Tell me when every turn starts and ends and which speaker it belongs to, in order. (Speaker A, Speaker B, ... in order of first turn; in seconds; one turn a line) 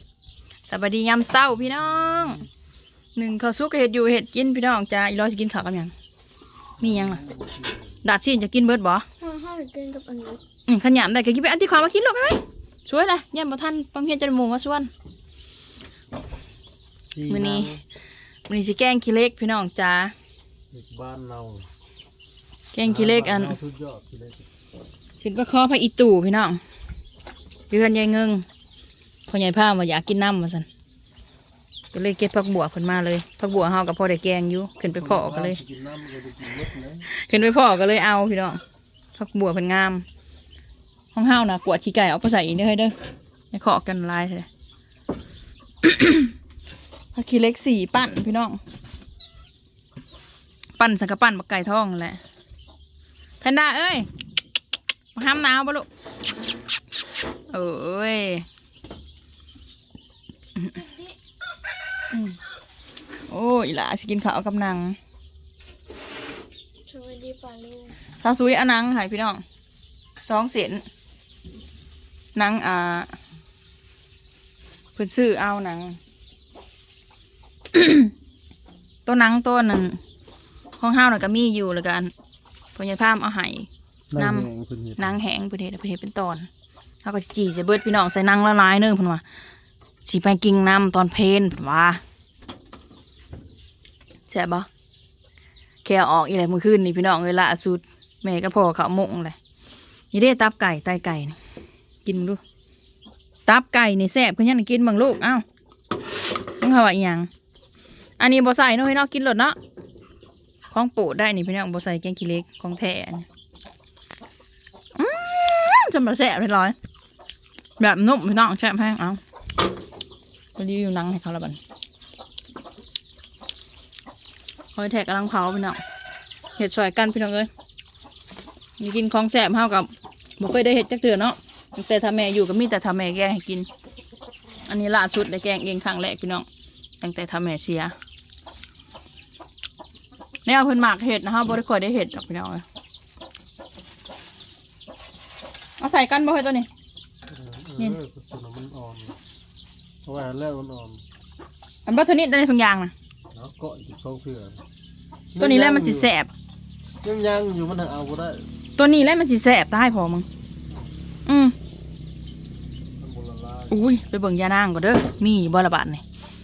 Speaker A: 0.7-2.5
Speaker A: 3.2-5.9
Speaker B: 6.8-8.0
Speaker A: 6.8-7.2
Speaker A: 8.0-9.1
Speaker C: 9.2-10.4
Speaker A: 10.7-14.9
Speaker B: 17.1-17.8
Speaker A: 17.3-17.7
Speaker A: 18.5-20.1
Speaker B: 20.7-21.7
Speaker A: 22.7-23.6
Speaker B: 22.8-24.5
Speaker A: 25.2-26.6
Speaker A: 27.7-28.4
Speaker A: 29.3-30.7
Speaker A: 31.9-35.6
Speaker B: 34.9-37.1
Speaker A: 37.0-38.6
Speaker A: 39.1-40.0
Speaker A: 41.1-43.0
Speaker A: 43.5-44.5
Speaker A: 45.8-46.3
Speaker A: 47.1-48.6
Speaker A: 50.8-52.2
Speaker A: 53.4-54.1
Speaker A: 55.1-55.9
Speaker A: 57.5-58.5
Speaker C: 60.8-61.1
Speaker A: 62.1-62.4
Speaker A: 63.3-65.0
Speaker C: 66.9-68.0
Speaker A: 68.1-69.4
Speaker A: 70.2-70.8
Speaker A: 72.3-73.2
Speaker A: 75.0-76.0
Speaker A: 77.7-78.1
Speaker A: 79.0-80.0
Speaker A: 80.8-82.1
Speaker A: 82.8-86.5
Speaker B: 84.1-85.2
Speaker A: 87.0-89.2
Speaker A: 90.0-92.0
Speaker A: 94.3-94.7
Speaker A: 95.8-99.4
Speaker A: 100.1-101.4
Speaker A: 102.0-102.4
Speaker A: 103.5-105.5
Speaker A: 106.6-107.3
Speaker A: 108.2-109.6
Speaker A: 110.7-113.3
Speaker A: 115.0-116.8
Speaker A: 117.8-119.2
Speaker A: 120.6-121.6
Speaker A: 124.8-125.8
Speaker A: 126.6-127.5
Speaker A: 128.8-133.7
Speaker A: 134.7-136.5
Speaker A: 137.0-137.9
Speaker A: 140.4-142.6
Speaker A: 145.8-146.7
Speaker B: 147.3-149.2
Speaker B: 150.1-151.0
Speaker A: 151.8-152.9
Speaker B: 153.3-154.6
Speaker B: 155.3-156.1
Speaker A: 155.4-156.3
Speaker B: 157.0-158.5
Speaker A: 158.8-160.3
Speaker A: 161.3-161.6
Speaker B: 163.0-163.8
Speaker A: 163.7-166.0